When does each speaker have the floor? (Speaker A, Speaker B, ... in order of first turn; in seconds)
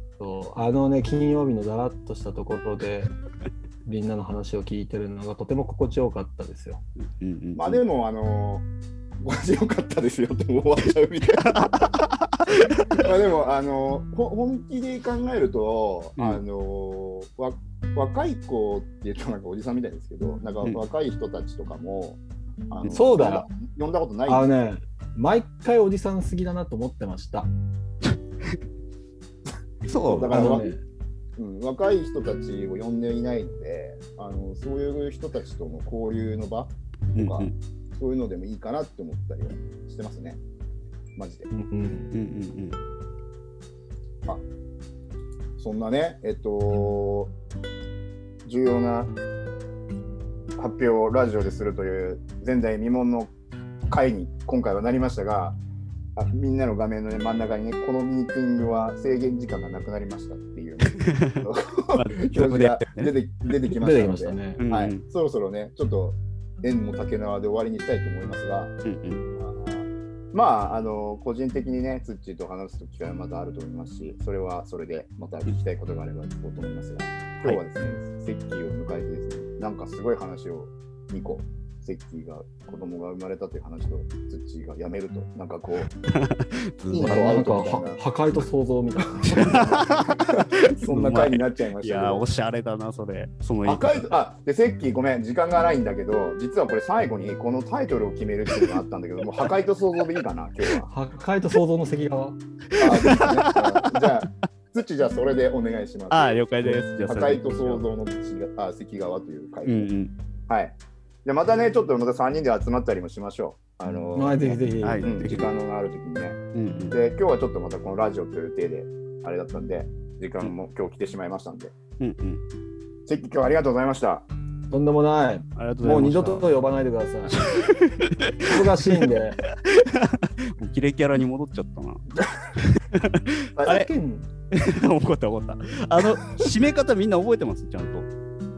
Speaker A: 0.2-3.1, 3.8-6.8, 22.9-23.4, 24.2-27.5, 30.1-30.8, 41.5-42.1, 63.6-64.6, 86.9-90.0, 100.9-102.4, 114.1-115.1, 124.7-127.4, 128.4-129.4, 133.6-134.3
Speaker B: 7.2-7.8, 11.6-13.0, 16.2-16.4, 29.8-30.7, 37.1-37.5, 42.1-42.8, 61.0-63.1, 64.6-65.0, 68.8-69.2, 86.1-87.4, 89.2-94.1, 102.7-104.2, 106.1-107.8, 109.7-110.1, 114.8-115.5, 116.5-117.0, 122.0-122.4, 125.5-126.5, 127.3-129.1, 129.6-132.0, 132.5-133.9, 134.5-138.1
Speaker C: 7.5-8.7, 9.2-11.9, 12.9-22.2, 22.7-24.4, 30.1-30.7, 31.4-40.4, 41.1-41.5, 45.6-47.3, 48.4-49.1, 50.6-53.3, 53.9-55.6, 56.1-68.8, 69.3-85.9, 86.9-88.0, 89.4-89.8, 90.7-92.2, 93.6-100.9, 102.8-106.3, 107.0-109.9, 110.5-116.4, 116.9-121.8, 123.1-124.2